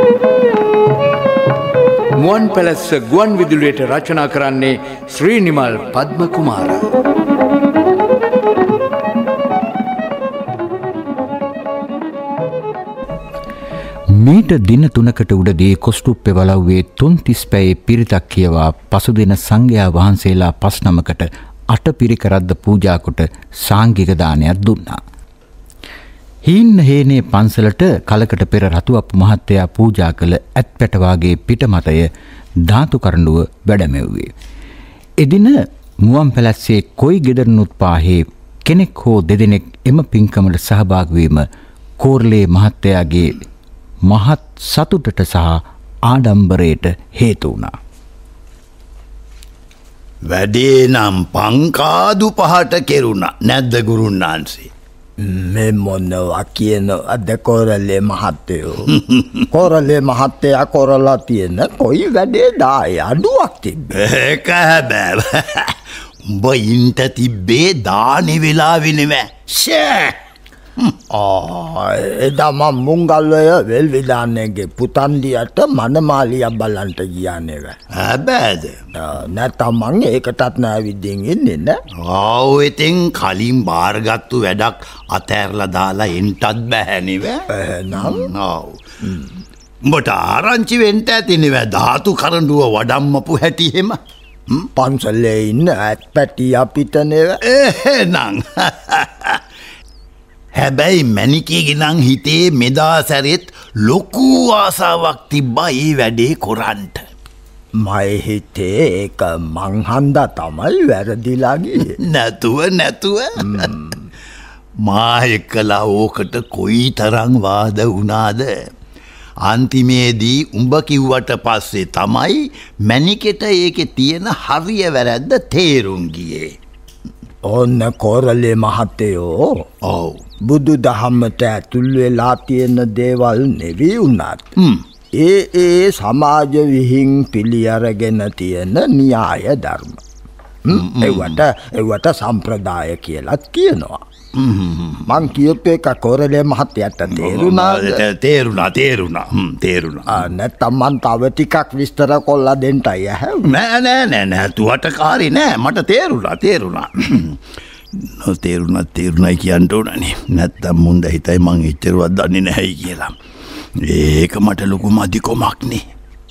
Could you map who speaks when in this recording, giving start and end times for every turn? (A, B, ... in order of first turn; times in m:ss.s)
0:02.2-0:06.9 A
0:14.2-0:25.0 B
0:26.4-0:32.1 B
0:32.6-0:34.3 B
0:35.2-0:41.4 B
0:42.0-0:43.4 B
0:44.1-0:47.7 B
0:50.3-0:54.7 C
0:55.2-0:59.0 D
0:59.5-1:03.9 D
1:03.9-1:10.2 C
1:10.8-1:11.6 C
1:11.5-1:17.8 D
1:17.9-1:18.8 C
1:18.9-1:21.8 D
1:22.0-1:27.4 C
1:27.5-1:28.3 D
1:28.0-1:28.8 C
1:29.0-1:29.3 D
1:29.8-1:34.7 C
1:34.7-1:37.4 D
1:37.4-1:39.4 C
1:40.5-1:47.0 C
1:47.8-1:52.0 D
1:51.8-1:53.8 C
1:53.4-1:54.0 D
1:54.8-1:58.7 C
1:59.4-2:06.5 C
2:07.4-2:09.6 D
2:09.8-2:10.2 C
2:10.4-2:14.5 D
2:15.1-2:20.0 D
2:20.6-2:24.0 D
2:20.7-2:21.4 C
2:24.3-2:25.1 C
2:25.1-2:28.0 D
2:27.1-2:30.2 C
2:30.1-2:33.5 D
2:33.4-2:37.4 C
2:37.9-2:43.1 C
2:43.8-2:45.8 C